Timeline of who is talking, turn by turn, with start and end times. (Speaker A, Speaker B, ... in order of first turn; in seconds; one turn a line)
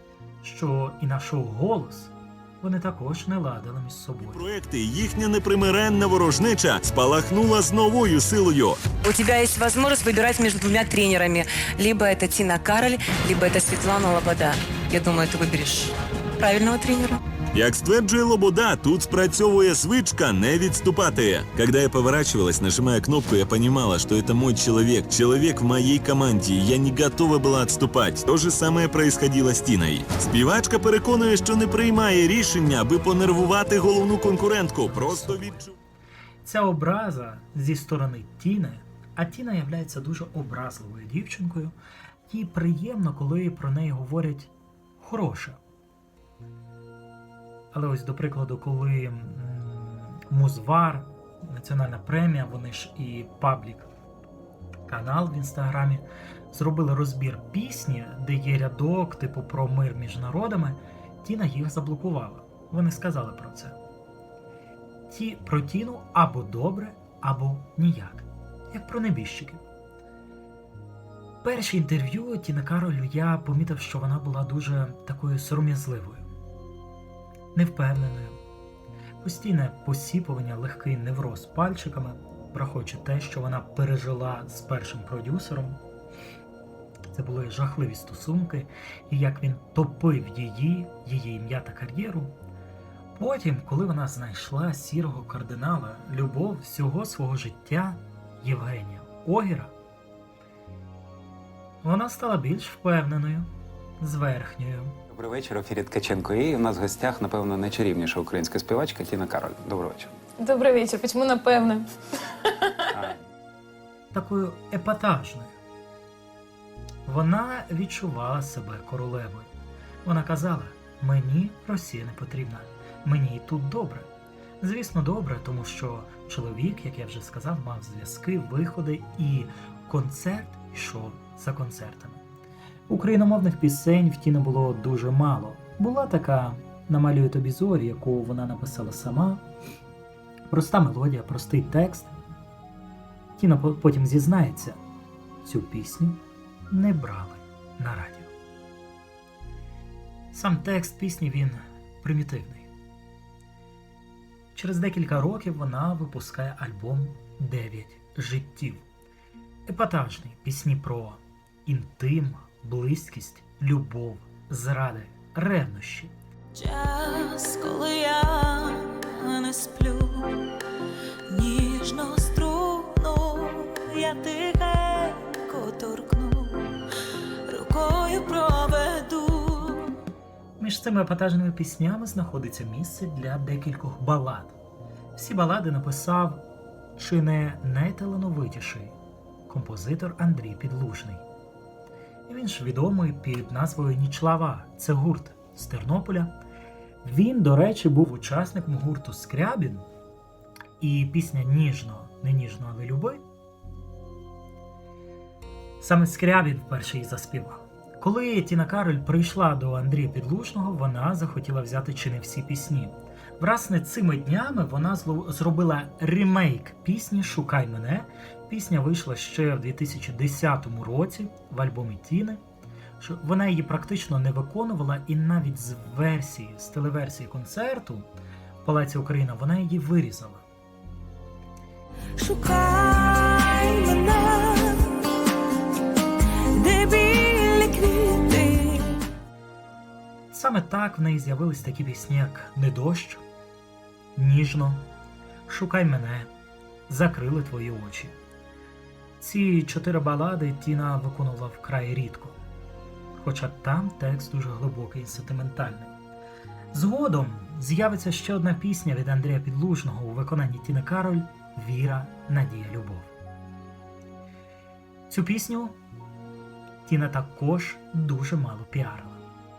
Speaker A: 0.4-4.4
Speaker B: 4.3-8.8
Speaker C: 9.0-17.2
Speaker B: 17.5-35.7
Speaker A: 34.9-35.7
Speaker A: 36.4-41.7
Speaker A: 42.3-45.6
Speaker A: 47.7-53.9
Speaker A: 54.9-63.8
Speaker A: 65.1-69.6
Speaker A: 71.4-76.3
Speaker A: 77.5-78.4
Speaker A: 79.2-85.8
Speaker A: 87.1-92.3
Speaker A: 93.1-99.7
Speaker A: 101.8-103.5
Speaker A: 104.0-105.0
Speaker D: 105.1-110.1
Speaker E: 110.4-111.9
Speaker E: 112.5-112.9
Speaker A: 114.1-115.5
Speaker A: 117.0-119.5
Speaker A: 120.0-124.1
Speaker A: 124.6-132.2
Speaker A: 132.9-139.4
Speaker A: 140.5-142.1
Speaker A: 143.4-144.8
Speaker A: 145.4-148.3
Speaker A: 150.3-152.7
Speaker A: 154.5-158.8
Speaker A: 159.7-166.1
Speaker F: 166.5-170.6
Speaker F: 171.3-176.7
Speaker F: 177.5-180.0
Speaker A: 180.6-184.5
Speaker A: 185.2-186.4
Speaker A: 187.0-188.9
Speaker A: 189.5-191.2
Speaker A: 192.3-196.3
Speaker A: 197.0-199.8
Speaker A: 200.8-203.2
Speaker A: 205.8-222.4
Speaker A: 223.0-228.1
Speaker A: 228.6-230.4
Speaker F: 232.2-235.1
Speaker F: 236.5-239.0
Speaker A: 240.3-243.2
Speaker A: 244.1-244.8
Speaker A: 245.5-246.3
Speaker A: 246.9-248.1
Speaker A: 249.2-252.4
Speaker A: 253.2-255.9
Speaker A: 256.7-263.1
Speaker A: 265.1-265.8
Speaker A: 266.9-269.2